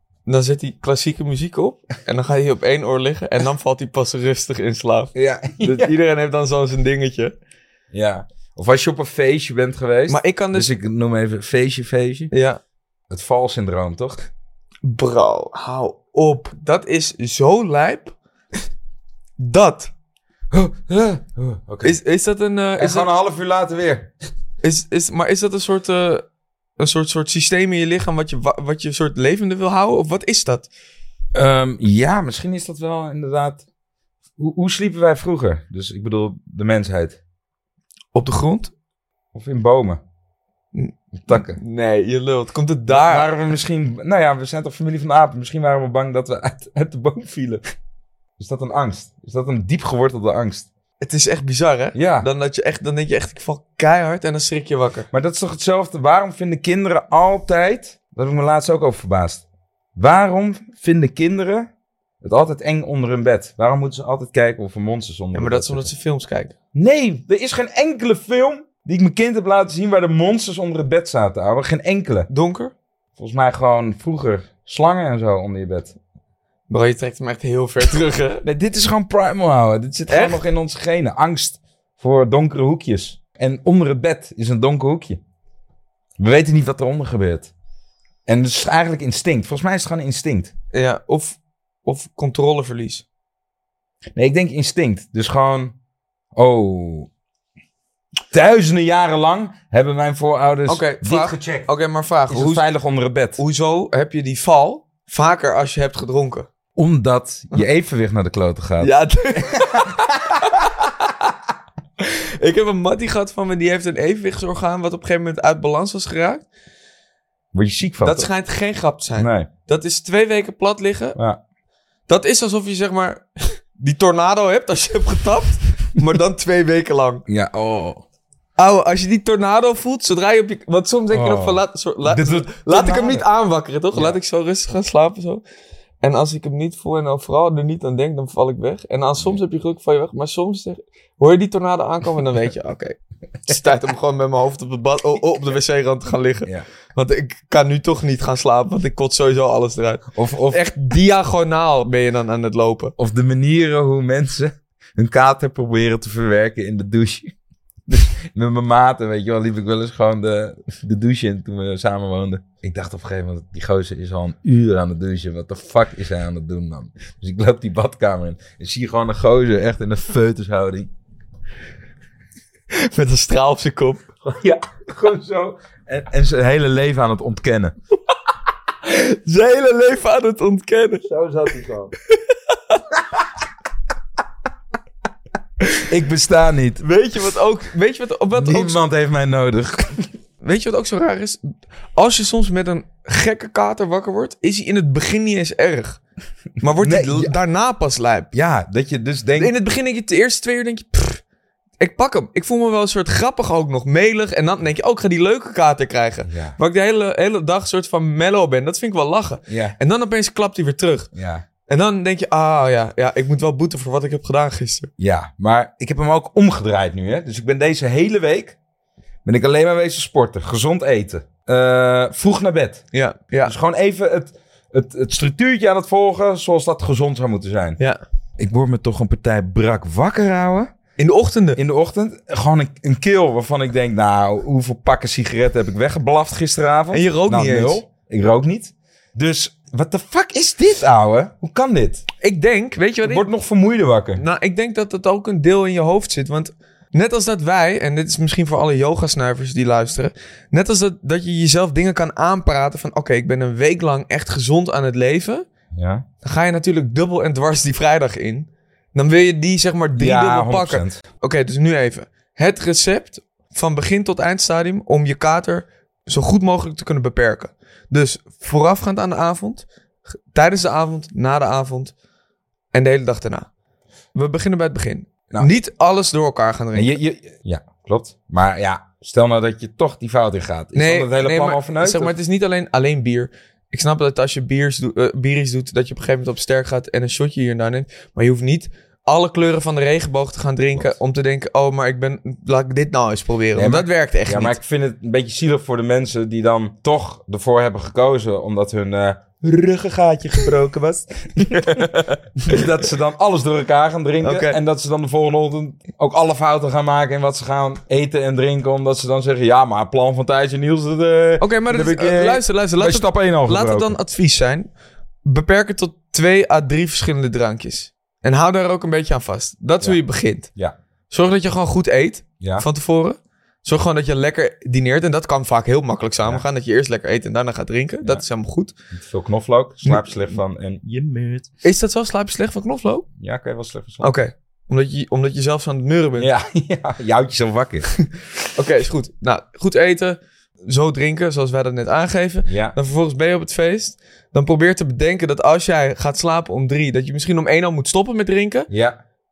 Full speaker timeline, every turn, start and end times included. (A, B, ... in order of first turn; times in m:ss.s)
0:00.2-0:07.3 A
0:05.1-0:05.9 B
0:07.9-0:12.3 B
0:10.1-0:10.7 A
0:12.3-0:12.6 A
0:13.1-0:14.3 B
0:14.8-0:18.1 A
0:19.4-0:19.9 A
0:20.5-0:22.0 B
0:21.8-0:23.1 A
0:22.8-0:24.1 B
0:24.6-0:26.2 A
0:26.8-0:30.7 A
0:31.3-0:33.6 B
0:34.4-0:37.2 B
0:38.1-0:38.7 A
0:39.3-0:40.0 B
0:40.7-0:43.3 A
0:41.2-0:41.6 B
0:42.9-0:47.6 B
0:48.4-0:50.7 B
0:51.0-0:55.1 A
0:51.9-0:52.3 B
0:55.1-0:59.4 B
1:00.0-1:01.7 B
1:02.2-1:05.9 B
1:05.3-1:06.5 A
1:06.7-1:12.3 B
1:12.3-1:12.7 A
1:13.2-1:16.0 B
1:16.7-1:18.4 A
1:18.4-1:25.2 B
1:20.1-1:20.4 A
1:26.2-1:27.5 B
1:28.2-1:30.5 B
1:30.7-1:33.0 A
1:34.1-1:35.7 B
1:36.3-1:37.1 B
1:38.3-1:41.7 B
1:40.7-1:42.6 A
1:42.3-1:43.4 B
1:43.4-1:46.5 A
1:46.8-1:50.4 B
1:48.8-1:51.1 A
1:52.0-1:56.4 A
1:57.5-1:58.3 B
1:58.0-2:01.2 A
1:59.2-1:59.5 B
2:02.1-2:07.2 A
2:07.3-2:08.0 B
2:08.6-2:15.4 A
2:11.1-2:13.2 B
2:16.0-2:32.9 A
2:30.1-2:30.6 B
2:33.0-2:37.3 B
2:37.9-2:50.9 B
2:52.7-2:54.0 A
2:54.2-2:57.7 B
2:58.8-3:01.0 A
3:01.0-3:01.9 B
3:02.1-3:02.8 A
3:05.9-3:06.8 B
3:06.8-3:08.8 A
3:08.3-3:10.1 B
3:10.4-3:16.0 A
3:16.6-3:18.3 A
3:16.8-3:17.3 B
3:18.3-3:19.5 B
3:19.4-3:21.2 A
3:21.8-3:31.1 A
3:26.3-3:26.6 B
3:29.5-3:29.8 B
3:31.1-3:31.4 B
3:31.6-3:34.9 A
3:35.0-3:38.6 B
3:39.2-3:42.8 B
3:42.9-3:43.5 A
3:43.4-3:47.8 B
3:48.4-3:50.7 B
3:51.0-3:51.6 A
3:51.6-4:02.0 B
3:56.9-3:57.8 A
4:02.2-4:03.2 A
4:03.0-4:04.2 B
4:04.2-4:15.4 A
4:15.7-4:16.0 B
4:16.2-4:29.6 A
4:20.0-4:21.0 B
4:30.3-4:31.9 A
4:32.7-4:33.5 A
4:34.1-4:37.0 A
4:36.7-4:42.1 B
4:40.7-4:54.6 A
4:53.5-5:14.0 B
5:01.5-5:02.6 A
5:04.2-5:04.6 A
5:11.4-5:14.7 A
5:15.2-5:20.5 A
5:21.1-5:28.7 A
5:22.4-5:22.6 B
5:28.9-5:31.5 B
5:29.8-5:30.1 A
5:31.6-5:33.1 A
5:33.2-5:34.1 B
5:34.0-5:36.3 A
5:36.2-5:37.9 B
5:38.5-5:48.7 A
5:42.4-5:42.8 B
5:48.7-5:49.0 B